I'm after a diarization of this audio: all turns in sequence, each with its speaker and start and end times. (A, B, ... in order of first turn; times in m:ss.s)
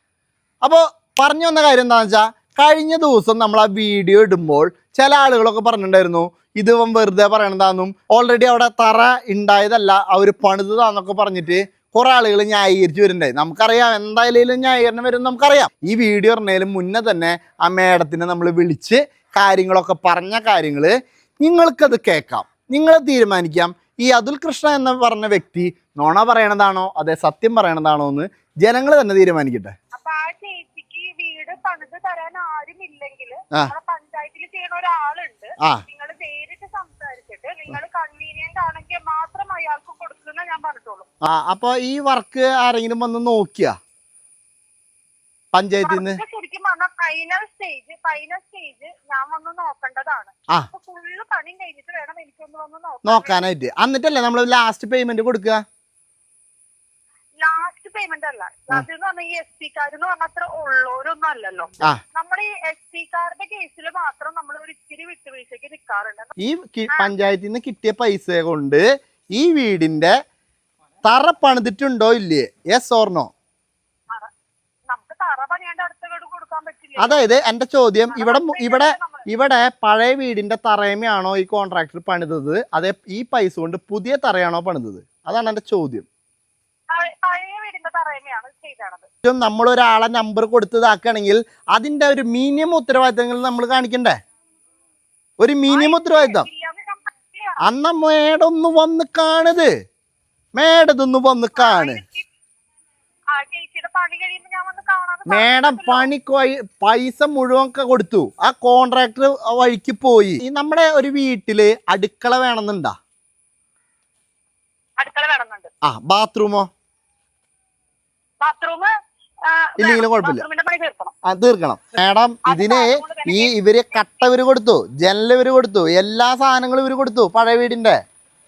0:00.6-0:29.7 A
0:29.9-0:41.1 B
0:41.2-0:43.7 A
0:45.5-0:46.2 A
0:45.8-0:53.4 B
0:53.0-0:55.6 A
0:57.4-1:06.3 B
1:06.4-1:08.8 A
1:09.4-1:10.1 A
1:11.0-1:13.3 A
1:14.9-1:17.3 B
1:17.0-1:26.1 A
1:18.1-1:19.3 B
1:26.9-1:29.1 B
1:29.2-1:34.2 A
1:35.4-1:36.5 A
1:35.7-1:37.6 B
1:37.6-1:39.7 A
1:40.6-1:42.0 A
1:41.6-1:42.3 B
1:43.3-1:46.1 B
1:45.3-1:53.0 A
1:55.0-1:55.7 B
1:55.8-1:56.7 A
1:58.4-1:58.9 B
1:59.4-2:01.1 B
1:59.8-2:00.4 A
2:01.2-2:08.0 A
2:02.4-2:04.1 B